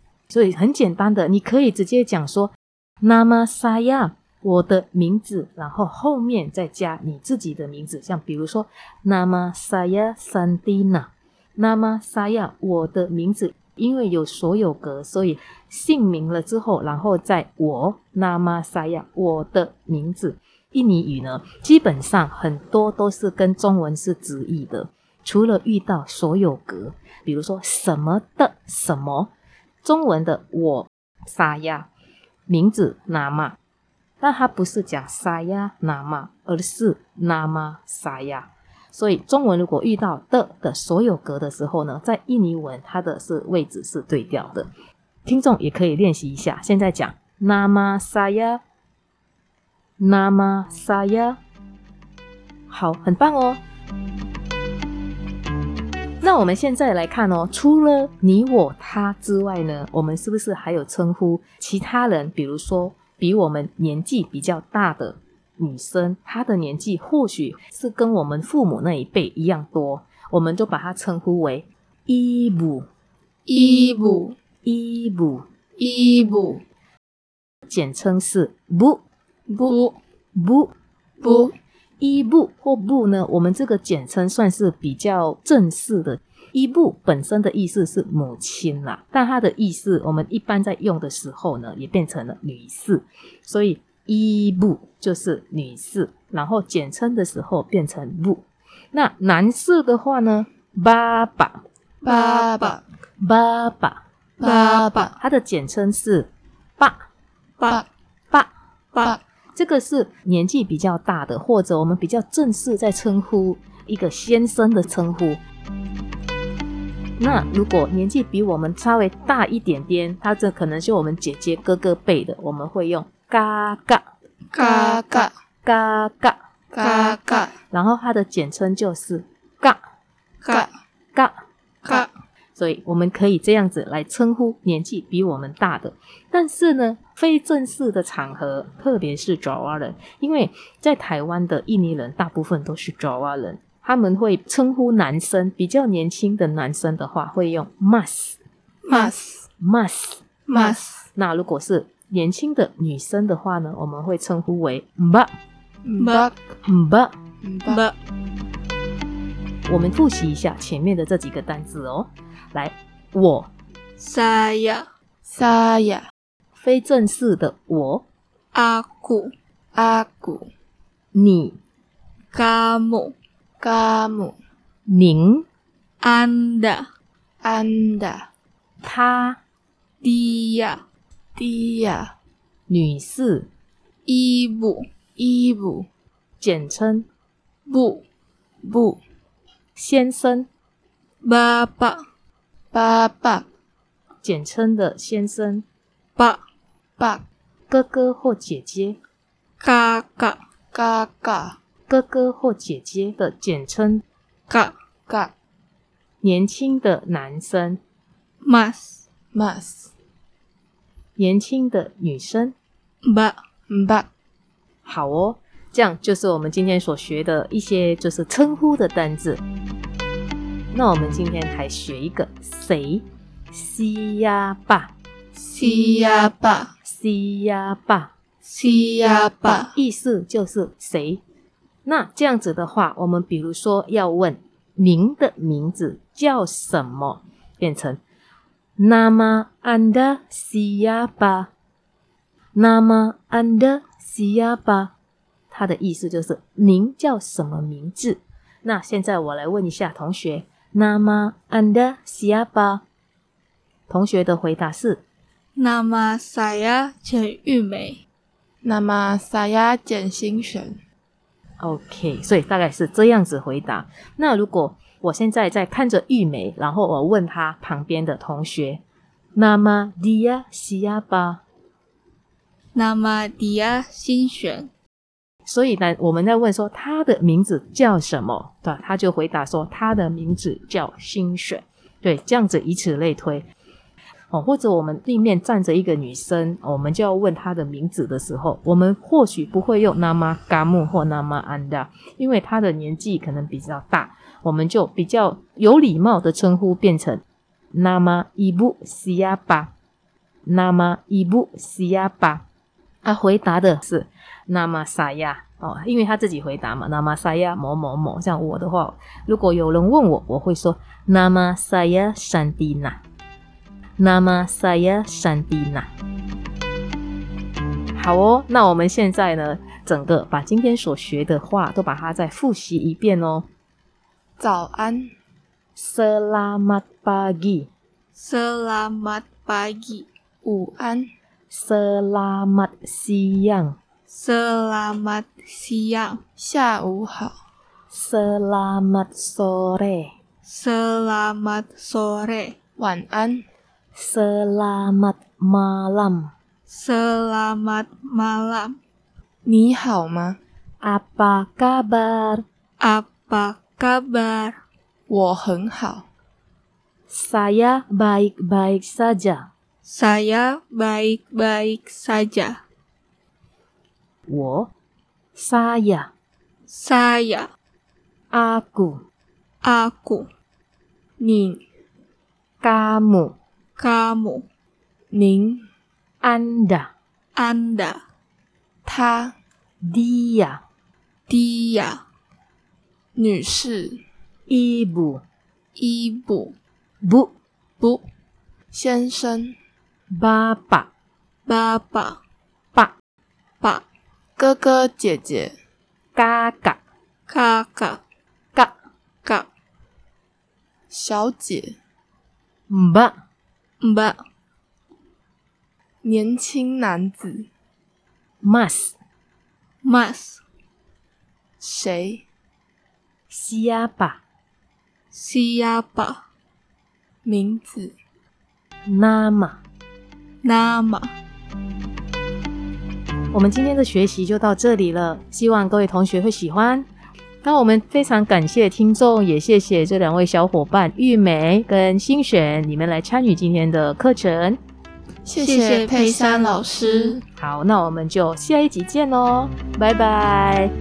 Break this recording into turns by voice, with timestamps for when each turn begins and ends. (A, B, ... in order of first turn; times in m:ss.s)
0:00.3-0:29.3 A
0:29.8-0:31.9 A
0:32.5-0:33.5 A
0:34.2-0:44.7 A
0:45.2-0:48.6 A
0:50.0-0:51.4 A
0:52.7-0:53.6 A
0:56.2-1:12.8 A
1:13.5-1:14.3 B
1:13.6-1:14.2 C
1:14.6-1:15.4 A
1:15.8-1:16.6 B
1:17.7-1:19.0 A
1:19.5-1:20.0 B
1:20.3-1:20.7 A
1:21.2-1:21.5 B
1:22.0-1:41.6 A
1:42.0-1:42.8 B
1:42.0-1:42.8 C
1:43.2-1:44.0 A
1:44.4-1:45.1 C
1:44.4-1:45.1 B
1:45.2-1:47.0 A
1:49.6-1:55.4 A
1:57.2-2:04.0 A
2:04.5-2:05.3 B
2:04.6-2:05.3 C
2:05.6-2:06.4 A
2:06.7-2:07.5 C
2:06.8-2:07.5 B
2:07.7-2:09.8 A
2:10.4-2:10.7 B
2:12.6-2:28.4 A
2:28.8-2:29.3 B
2:28.9-2:29.4 C
2:29.6-2:30.2 A
2:30.5-2:31.0 B
2:30.5-2:30.8 C
2:31.1-2:35.3 A
2:35.8-2:36.4 C
2:36.0-2:36.3 B
2:36.6-2:37.1 A
2:37.4-2:37.8 C
2:37.7-2:37.9 B
2:39.7-2:43.5 A
2:44.0-2:44.8 B
2:45.2-2:46.0 C
2:46.6-2:48.0 A
2:48.5-2:49.3 B
2:49.7-2:50.5 C
2:51.1-2:51.6 A
2:52.3-2:53.1 B
2:53.6-2:54.4 C
2:54.9-2:55.4 A
2:56.0-2:56.9 B
2:57.4-2:58.3 C
2:58.8-2:59.4 A
3:00.0-3:00.8 B
3:01.4-3:02.1 C
3:02.7-3:03.5 A
3:04.0-3:04.9 B
3:05.2-3:05.9 C
3:06.4-3:07.1 A
3:07.7-3:08.0 B
3:08.6-3:09.0 C
3:09.8-3:10.5 A
3:11.2-3:12.0 B
3:12.7-3:13.4 C
3:14.2-3:15.6 A
3:17.0-3:17.2 C
3:17.7-3:19.0 A
3:19.6-3:20.4 B
3:20.7-3:21.6 C
3:21.9-3:24.0 A
3:24.5-3:24.7 B
3:25.1-3:25.3 C
3:26.2-3:27.8 A
3:28.4-3:29.0 B
3:29.3-3:29.9 C
3:31.2-3:32.5 A
3:33.0-3:33.4 B
3:33.7-3:34.1 C
3:34.8-3:39.4 A
3:40.7-3:44.9 A
3:45.5-3:46.7 B
3:45.6-3:46.1 C
3:46.8-3:48.1 A
3:48.4-3:49.7 B
3:49.4-3:51.2 A
3:51.8-3:58.0 A
3:58.8-4:01.5 A
4:02.5-4:04.9 A
4:05.5-4:12.8 A
4:13.9-4:15.0 A
4:15.6-4:18.0 B
4:18.6-4:20.8 C
4:21.6-4:28.8 A
4:29.3-4:31.4 A
4:32.7-4:34.7 B
4:35.4-4:43.4 A
4:44.3-4:57.2 A
4:57.7-4:59.7 A
5:00.4-5:02.4 A
5:03.0-5:13.0 A
5:14.0-5:15.9 A
5:17.9-5:23.5 A
5:24.4-5:25.1 C
5:25.8-5:27.7 A
5:28.2-5:30.1 B
5:30.4-5:31.1 C
5:31.5-5:33.8 A
5:34.1-5:36.2 B
5:36.4-5:37.3 C
5:37.9-5:40.1 A
5:40.4-5:42.5 B
5:42.8-5:43.4 C
5:43.9-5:46.3 A
5:46.7-5:48.8 B
5:49.4-5:50.4 C
5:50.8-5:52.4 A
5:52.8-5:54.6 B
5:55.1-5:56.0 C
5:57.1-5:59.5 A
5:59.8-6:02.6 B
6:04.3-6:04.7 A
6:05.3-6:06.1 A
6:06.7-6:07.5 B
6:08.3-6:09.0 A
6:09.6-6:10.3 B
6:11.2-6:11.6 C
6:12.6-6:13.3 A
6:13.8-6:14.4 B
6:15.1-6:15.6 C
6:16.2-6:16.9 A
6:17.4-6:18.0 B
6:18.8-6:19.3 C
6:19.8-6:20.6 A
6:21.3-6:22.0 B
6:23.2-6:24.0 C
6:24.5-6:25.2 A
6:25.8-6:26.5 B
6:27.0-6:27.3 A
6:28.7-6:29.6 C
6:30.2-6:30.9 A
6:31.4-6:32.2 B
6:34.4-6:35.5 C
6:36.1-6:36.8 A
6:37.3-6:38.0 B
6:40.9-6:41.8 C
6:42.7-6:43.2 A
6:43.8-6:44.2 B
6:46.0-6:47.5 C
6:48.4-6:48.9 A
6:49.8-6:50.4 B
6:51.6-6:52.2 C
6:53.3-6:54.2 A
6:55.1-6:56.2 B
6:57.2-6:57.9 C
6:58.8-6:59.6 A
7:00.4-7:01.1 B
7:03.3-7:06.8 A
7:07.4-7:14.6 A
7:15.2-7:17.2 C
7:15.4-7:17.2 B
7:17.4-7:20.7 A